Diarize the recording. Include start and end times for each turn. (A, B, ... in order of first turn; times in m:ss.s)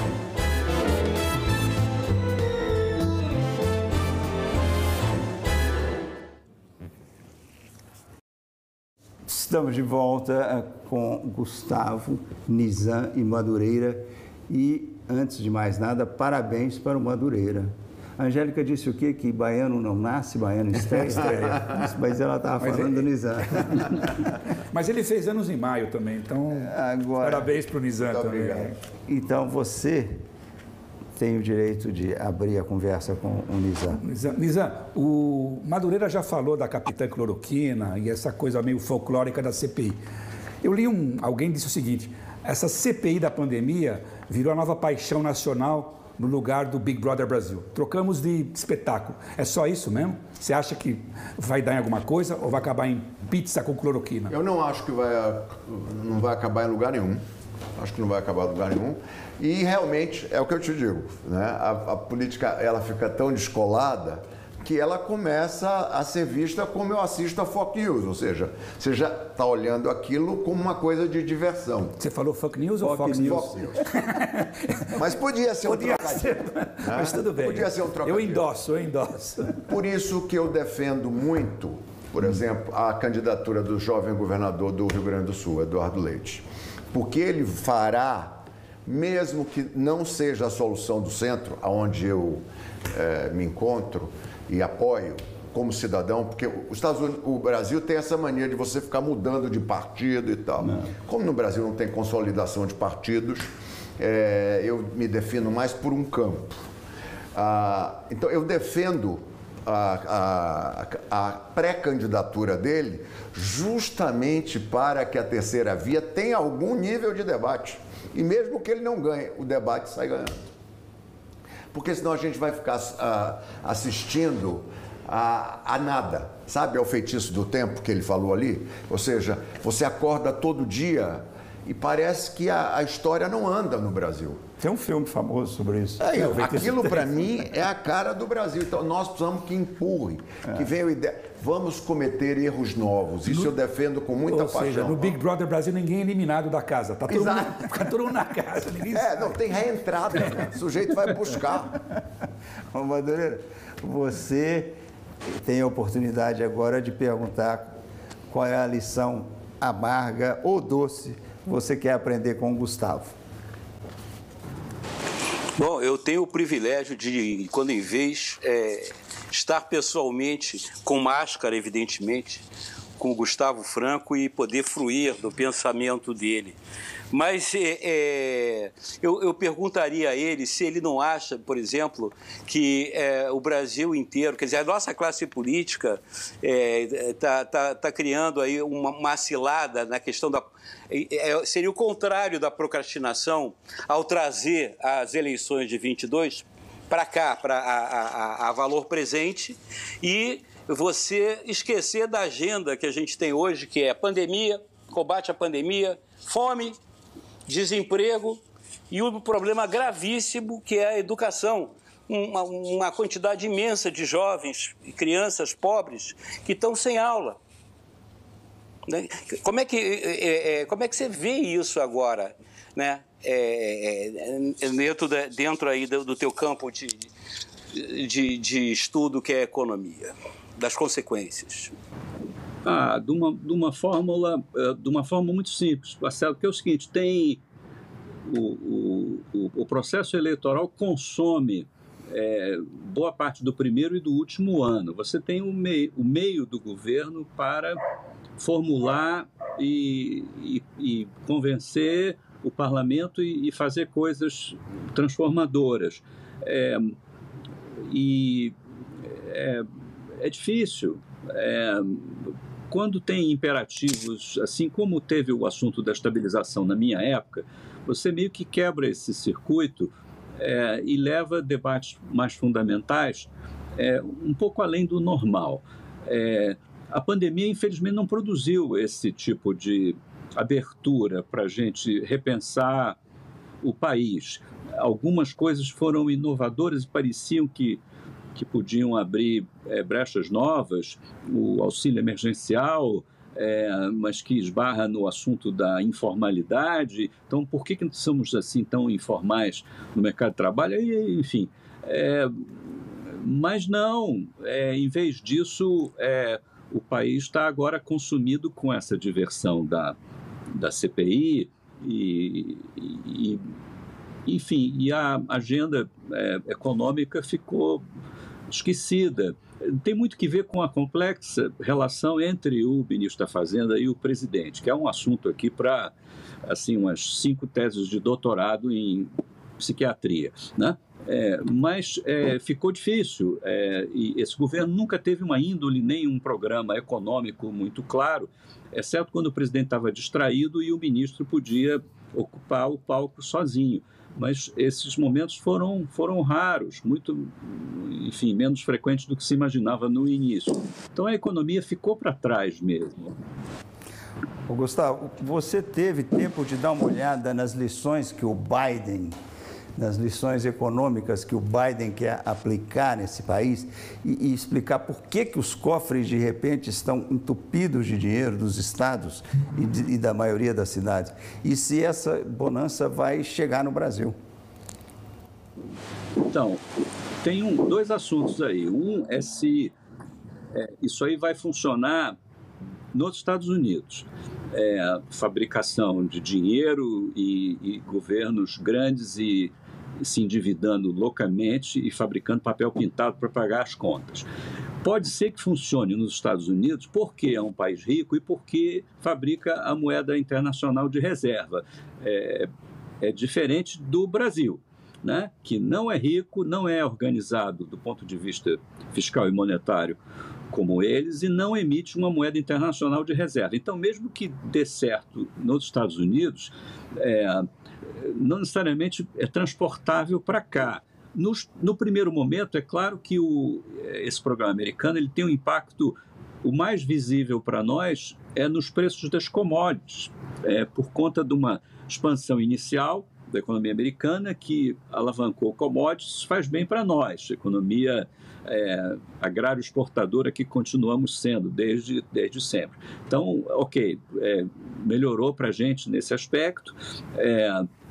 0:09.3-0:24.0 A
0:21.1-0:21.4 B
0:22.6-0:28.7 B
0:26.5-0:27.5 A
0:28.1-0:28.7 C
0:29.0-0:30.1 A
0:31.2-0:34.0 A
0:34.0-0:40.0 B
0:40.6-0:54.3 B
0:54.3-0:57.2 C
0:57.8-1:12.0 C
1:12.0-1:14.9 B
1:12.8-1:13.7 A
1:13.2-1:13.8 C
1:14.9-1:18.5 C
1:15.6-1:19.6 B
1:19.6-1:46.6 C
1:40.6-1:40.9 A
1:47.3-2:00.4 C
2:01.7-2:14.4 C
2:14.6-2:16.1 A
2:16.0-2:25.1 C
2:16.1-2:17.2 B
2:23.3-2:23.5 B
2:24.3-2:29.4 B
2:27.1-2:27.7 C
2:28.9-2:31.8 C
2:32.7-2:34.8 A
2:35.3-2:37.7 A
2:38.3-2:43.1 A
2:45.6-2:52.4 D
2:53.0-2:56.6 D
2:57.1-3:26.8 D
3:27.4-3:28.4 D
3:28.9-3:37.4 D
3:38.9-3:47.1 D
3:47.7-3:51.7 D
3:52.6-3:57.4 E
3:58.2-4:07.8 E
4:08.4-4:17.0 E
4:17.9-4:18.5 E
4:19.1-4:19.7 E
4:20.2-4:43.0 E
4:43.6-4:47.8 E
4:48.3-5:02.5 E
5:03.1-5:10.0 E
5:10.5-5:13.4 E
5:14.2-5:17.8 E
5:18.5-5:25.9 E
5:26.5-5:53.2 E
5:54.5-5:59.2 A
5:59.8-6:14.2 A
6:16.2-6:16.6 E
6:17.2-6:19.7 E
6:20.5-6:22.2 E
6:22.9-6:34.3 E
6:34.8-6:42.5 E
6:43.0-6:50.0 E
6:50.5-6:57.5 E
6:58.0-7:27.7 E